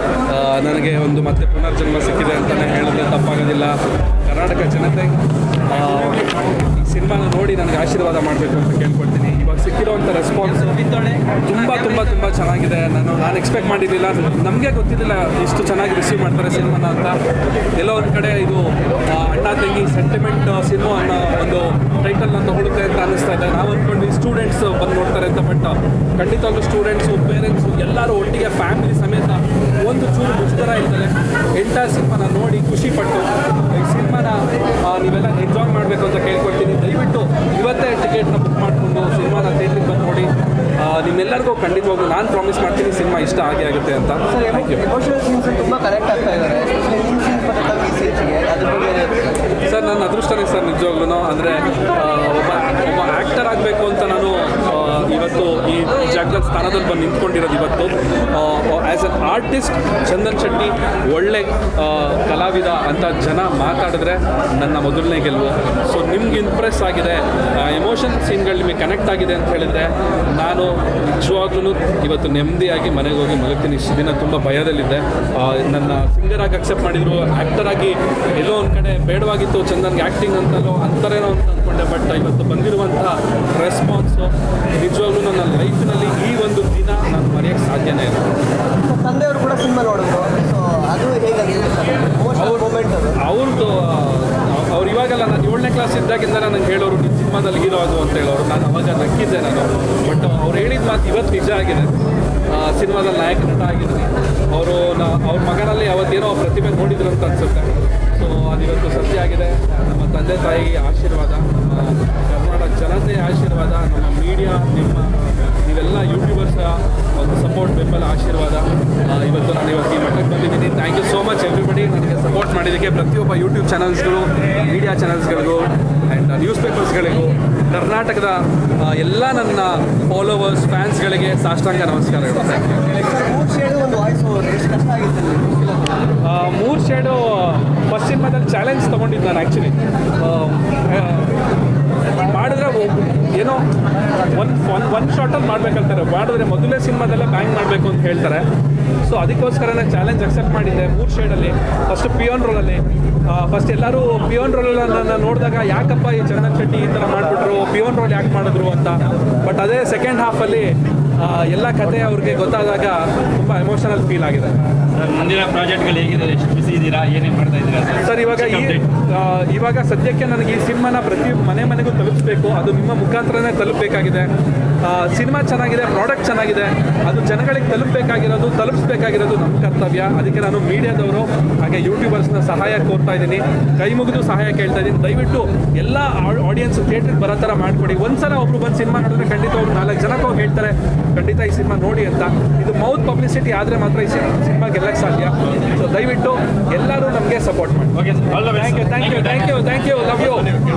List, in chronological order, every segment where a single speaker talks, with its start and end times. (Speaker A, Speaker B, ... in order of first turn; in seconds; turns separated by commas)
Speaker A: 0.3-10.8, Speaker B: 10.6-11.2, Speaker A: 11.4-17.2, Speaker A: 17.7-44.8, Speaker C: 44.3-49.3, Speaker A: 49.6-88.3, Speaker C: 88.9-93.2, Speaker A: 92.3-101.9, Speaker A: 102.5-132.9, Speaker C: 132.9-135.7, Speaker A: 136.2-141.3, Speaker A: 142.0-143.6, Speaker A: 144.3-148.4, Speaker A: 149.0-164.6, Speaker B: 164.9-168.9, Speaker A: 167.9-174.3, Speaker A: 174.8-200.6, Speaker B: 197.9-199.5